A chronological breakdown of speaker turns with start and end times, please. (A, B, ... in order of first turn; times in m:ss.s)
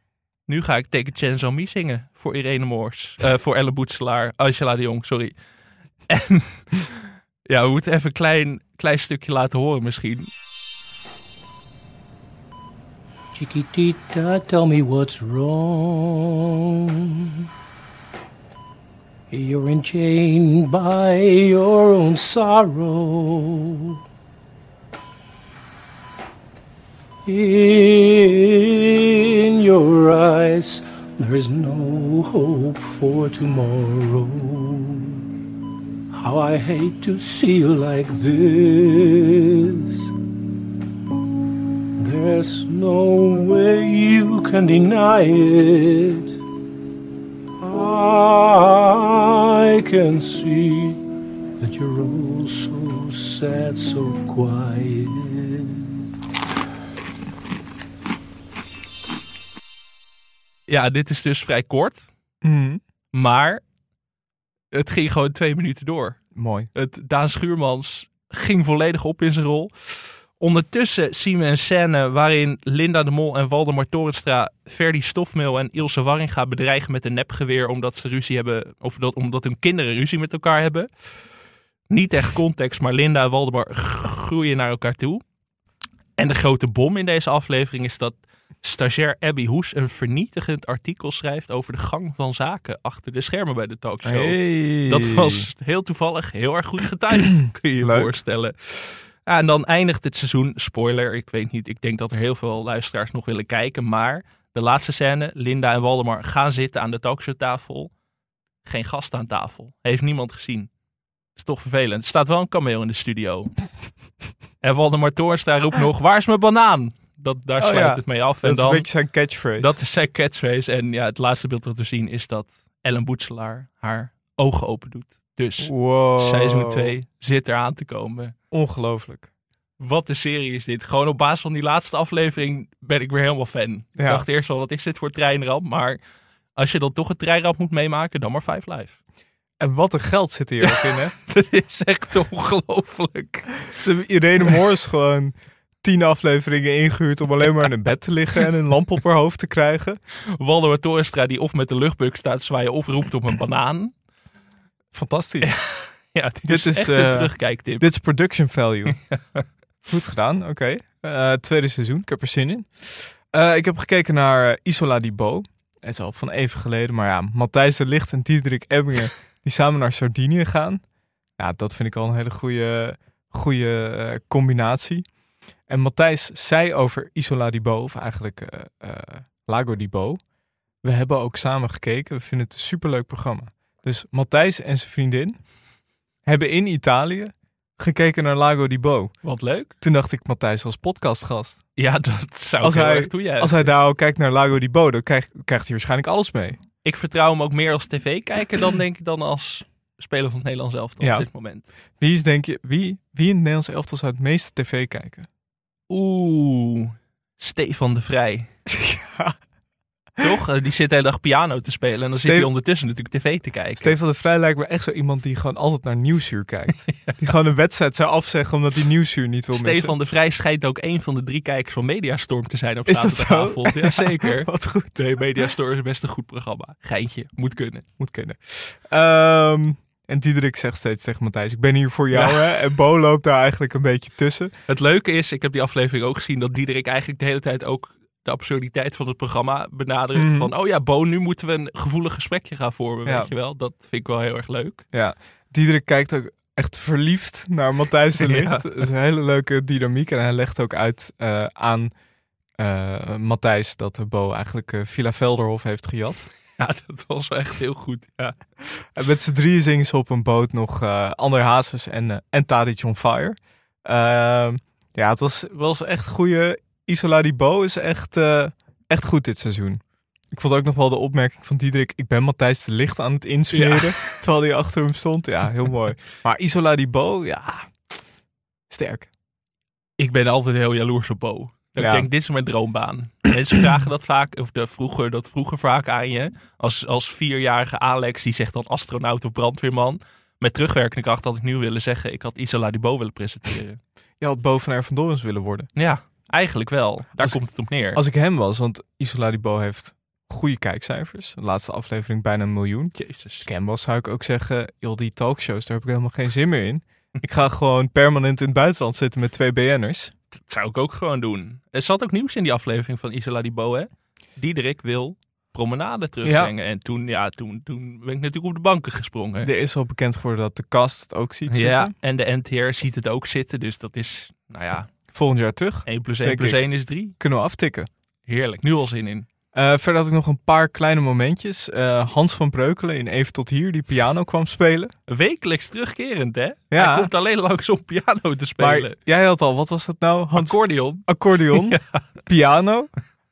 0:00.5-0:05.4 A
0:06.1-0:10.3 A
0:13.3-0:17.2 B
0:19.3-0:23.9 B
0:27.3-0:35.2 B
0:36.1-0:40.1 B
0:42.0-0:46.3 B
0:47.6-0:51.0 B
0:51.6-0:55.9 B
1:00.7-1:02.1 A
1:02.4-1:02.8 C
1:03.1-1:03.6 A
1:04.7-1:21.1 A
1:06.4-1:06.7 C
1:21.9-1:25.2 A
1:26.2-1:47.9 A
1:34.0-1:35.5 C
1:37.8-1:38.1 C
1:48.6-1:50.7 A
1:51.4-1:53.6 A
1:54.6-1:58.9 A
1:57.6-1:59.7 C
1:59.6-2:08.3 A
2:05.6-2:07.0 C
2:08.5-2:09.3 C
2:09.8-2:16.0 A
2:14.0-2:14.2 C
2:16.6-2:19.0 A
2:19.6-2:21.1 C
2:20.6-2:23.6 A
2:23.8-2:30.0 C
2:30.4-2:33.9 A
2:34.9-2:35.5 C
2:35.4-2:37.8 A
2:36.5-2:39.0 C
2:39.0-2:39.4 A
2:39.8-2:50.8 C
2:51.4-2:55.0 C
2:55.7-3:00.2 C
3:00.8-3:05.5 C
3:06.2-3:09.2 C
3:09.2-3:09.8 A
3:09.8-3:11.6 C
3:11.8-3:13.7 A
3:12.6-3:16.6 C
3:16.8-3:21.7 A
3:21.0-3:21.3 C
3:22.0-3:25.3 C
3:25.9-3:28.5 A
3:28.7-3:29.4 C
3:30.2-3:34.0 A
3:32.2-3:32.5 C
3:33.8-3:39.9 C
3:36.9-3:37.2 A
3:39.5-3:47.9 A
3:42.9-3:45.1 C
3:48.0-3:54.5 C
3:52.1-3:52.7 A
3:54.7-4:04.8 A
4:00.2-4:00.5 C
4:03.1-4:03.3 C
4:04.9-4:11.9 C
4:08.2-4:08.6 A
4:12.6-4:16.3 C
4:16.6-4:18.4 A
4:18.8-4:37.8 C
4:33.5-4:34.2 A
4:38.7-4:39.1 C
4:40.0-4:53.8 A
4:41.8-4:42.1 C
4:54.2-4:55.7 C
4:55.8-4:58.0 A
4:57.9-5:10.1 C
5:03.0-5:03.5 A
5:10.3-5:19.5 A
5:16.2-5:16.5 C
5:19.4-5:21.9 C
5:21.5-5:24.9 A
5:25.1-5:27.9 C
5:25.9-5:27.2 A
5:28.3-5:29.3 A
5:29.5-5:34.9 C
5:35.1-5:39.0 A
5:36.7-5:37.1 C
5:38.6-5:42.9 C
5:40.3-5:42.1 A